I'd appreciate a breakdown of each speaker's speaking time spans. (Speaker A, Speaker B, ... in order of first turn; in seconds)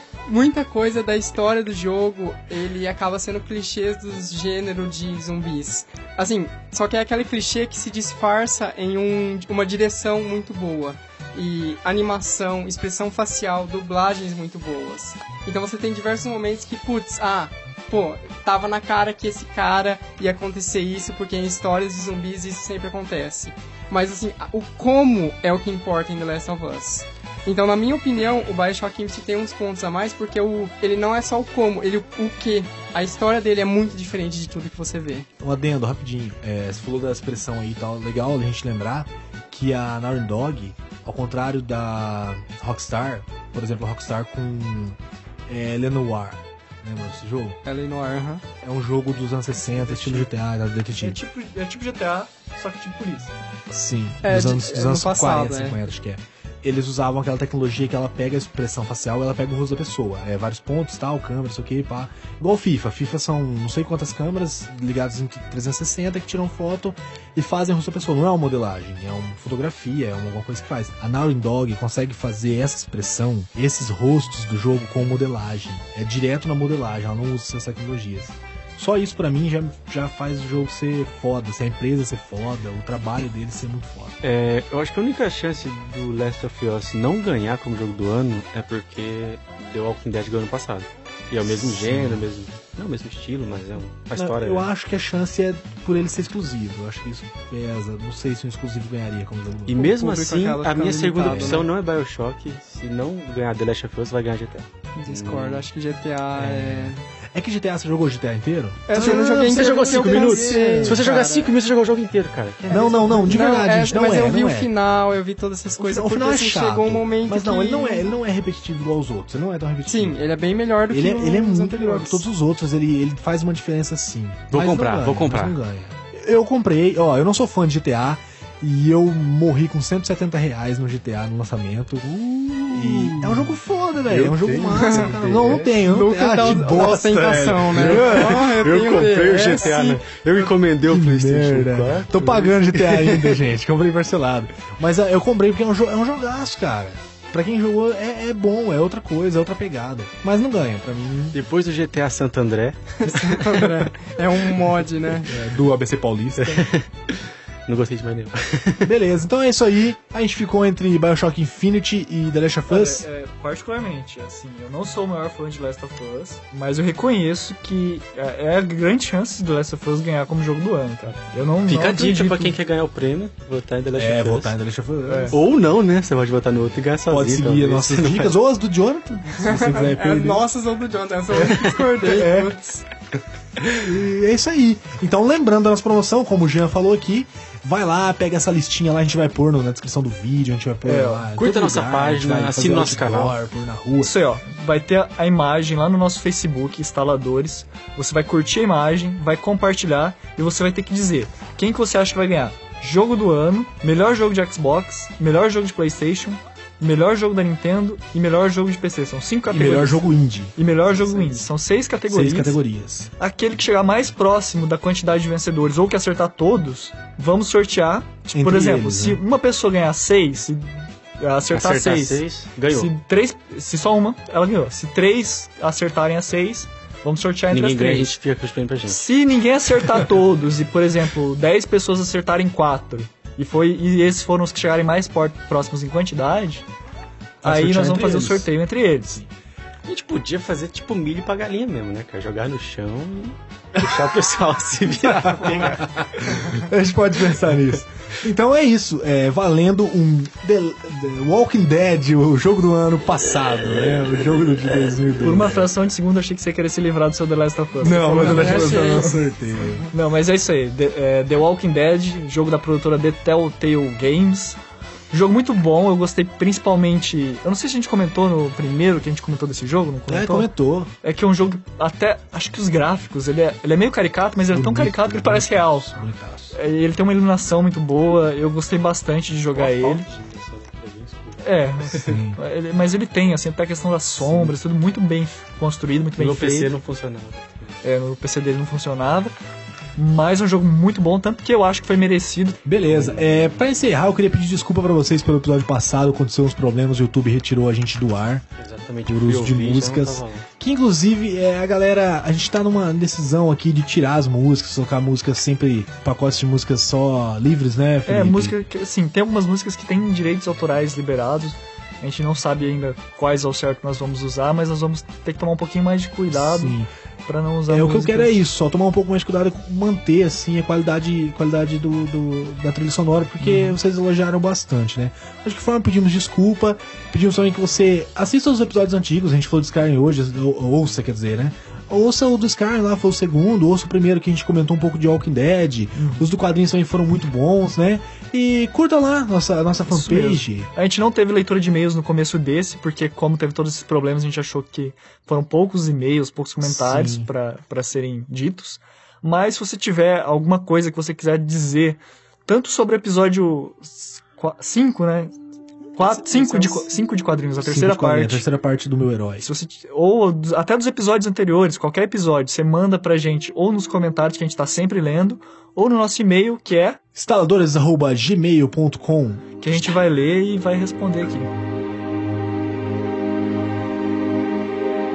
Speaker A: 0.3-35.3, 47.6-48.4, 54.2-55.8, 99.8-101.7, 105.0-107.0, 108.9-111.5, 112.7-118.2, 119.9-122.2, 134.7-135.1, 135.7-140.1, 153.0-155.3, 179.3-182.9, 258.2-259.2, 356.1-356.9
Speaker B: 35.4-47.6, 48.6-51.2, 53.7-84.2, 91.4-92.3, 94.2-99.9, 101.2-101.7, 106.4-111.1, 112.6-114.7, 115.8-120.2, 120.9-138.4, 140.8-151.4, 155.2-156.7, 158.8-163.1, 174.0-175.4, 177.1-180.4, 181.4-182.5, 183.7-194.1, 209.5-210.6, 212.1-213.1, 218.3-219.2, 237.4-238.5, 245.0-255.7, 257.8-259.9, 270.1-270.9, 274.5-276.6, 282.0-282.4, 284.2-284.6, 292.6-298.4, 299.1-308.6, 316.3-316.9, 317.7-340.7, 346.6-347.3, 357.6-359.5, 367.1-369.5
Speaker C: 49.6-50.3, 51.0-53.4, 162.7-172.6, 175.1-175.4, 182.1-182.5, 190.8-191.3, 194.0-212.6, 213.2-228.2, 228.9-236.7, 237.4-239.2, 245.1-245.8, 255.2-259.2, 259.9-264.6, 265.1-270.5, 271.0-276.0, 276.5-280.1, 281.4-286.7, 287.8-289.4, 289.9-292.6, 308.1-318.4, 323.4-323.8, 336.0-336.3, 339.9-355.4, 356.0-358.4, 359.4-367.0, 369.6-371.5
Speaker D: 84.2-94.7, 99.7-105.7, 108.9-112.8, 124.5-125.6, 132.4-133.6, 134.1-135.7, 137.7-143.4, 151.3-153.7, 156.4-158.9, 171.7-174.6, 175.3-178.3, 183.6-183.8, 191.4-193.4, 221.5-222.9, 227.5-229.1, 239.8-246.5, 279.5-282.2, 286.2-287.8, 292.9-293.6, 298.6-300.5